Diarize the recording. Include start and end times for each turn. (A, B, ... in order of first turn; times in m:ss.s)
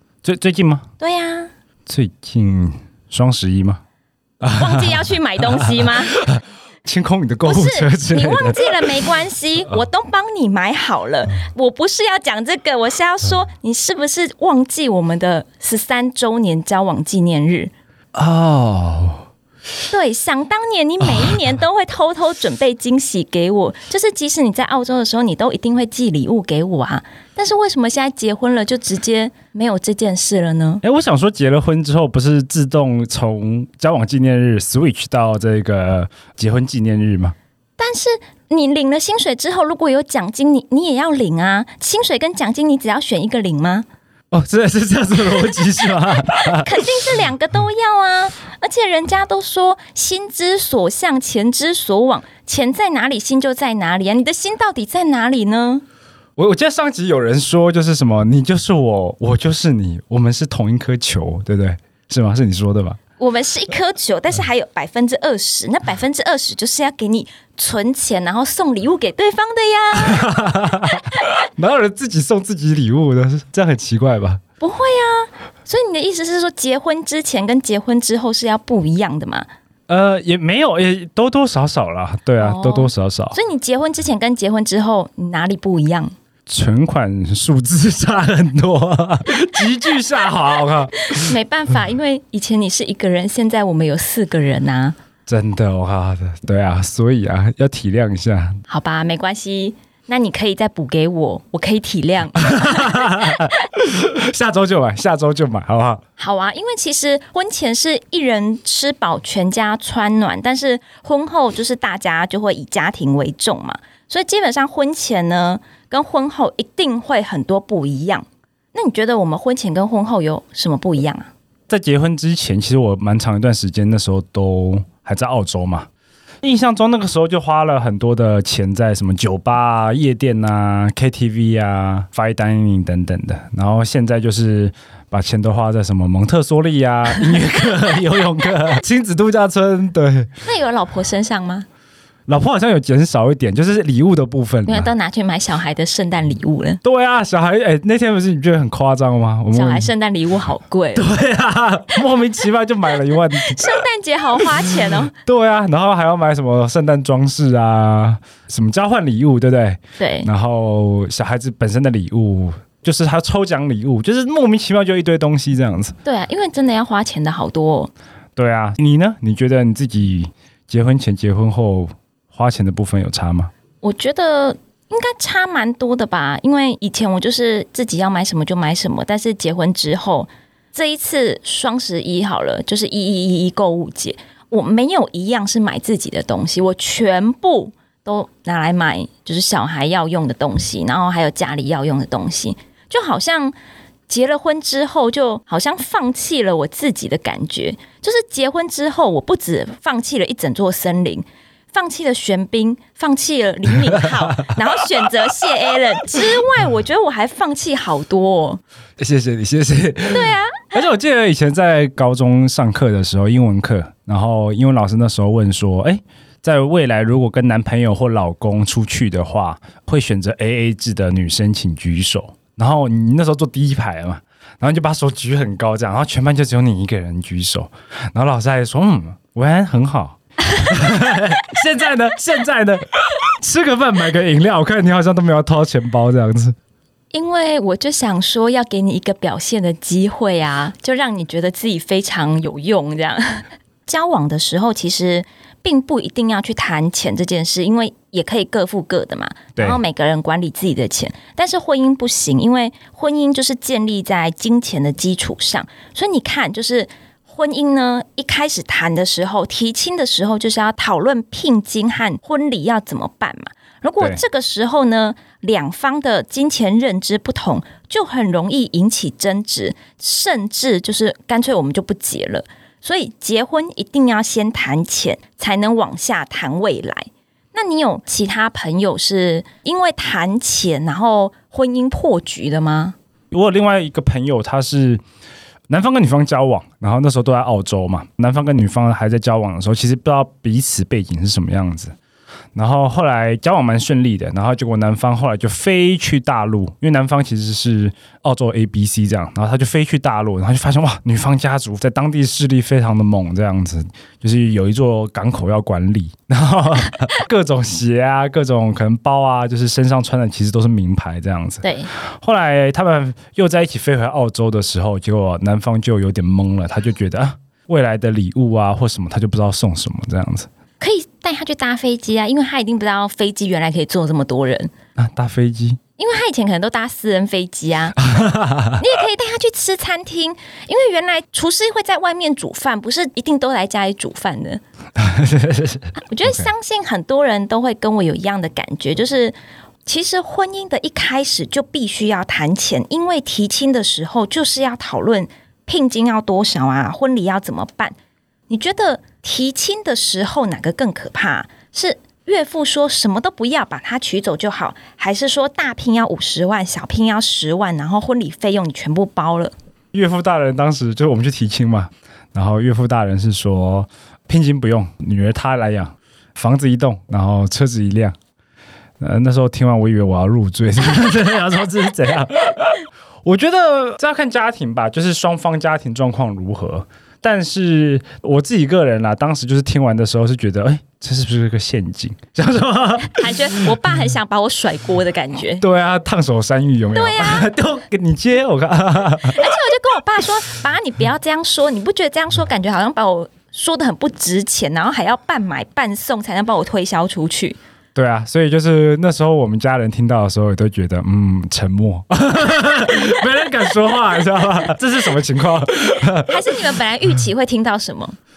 0:00.2-0:00.9 A
0:01.0-0:01.5 B
0:01.9-0:03.8 A
0:04.4-0:08.9 A
0:04.5-0:06.1 B
0:07.5-0:17.7 B
0:18.1-0:19.2 A
0:19.9-0:30.8 B
0:21.1-0:21.5 A
0:30.8-0:37.4 A
0:37.8-0:43.9 B
0:44.3-0:47.2 A
0:46.3-0:55.8 B
0:56.4-1:03.0 A
1:03.2-1:11.2 B
1:10.0-1:14.4 A
1:14.6-1:19.5 B
1:19.9-1:23.4 A
1:22.4-1:26.1 B
1:26.5-1:31.3 A
1:31.0-1:35.0 B
1:35.3-1:38.6 A
1:38.7-1:43.5 B
1:42.5-1:46.0 A
1:46.2-2:01.3 B
2:01.7-2:05.9 A
2:06.4-2:20.3 A
2:20.4-2:21.7 B
2:22.3-2:24.9 A
2:24.7-2:26.8 B
2:26.8-2:29.9 A
2:29.5-2:31.1 B
2:31.0-2:33.8 A
2:33.3-2:35.1 B
2:34.7-2:46.0 A
2:40.0-2:40.3 B
2:46.0-2:47.9 B
2:48.4-2:53.5 A
2:53.8-3:13.6 B
3:14.1-3:28.6 B
3:23.7-3:24.5 A
3:29.0-3:56.6 A
3:30.1-3:30.9 B
3:57.1-4:43.0 B
4:43.3-4:45.0 A
4:45.7-4:52.0 A
4:52.6-5:20.5 A
5:11.6-5:11.9 B
5:20.8-5:24.7 B
5:25.0-5:25.8 A
5:26.0-5:28.0 B
5:28.0-5:28.8 A
5:28.8-5:34.6 B
5:35.0-5:36.5 A
5:36.0-5:39.4 B
5:39.9-5:48.0 B
5:48.5-5:59.5 B
5:59.9-6:08.2 A
6:09.0-6:23.8 A
6:23.0-6:25.6 B
6:25.6-6:29.5 A
6:26.9-6:27.5 B
6:29.3-6:37.6 B
6:38.0-6:46.4 A
6:46.1-6:48.2 B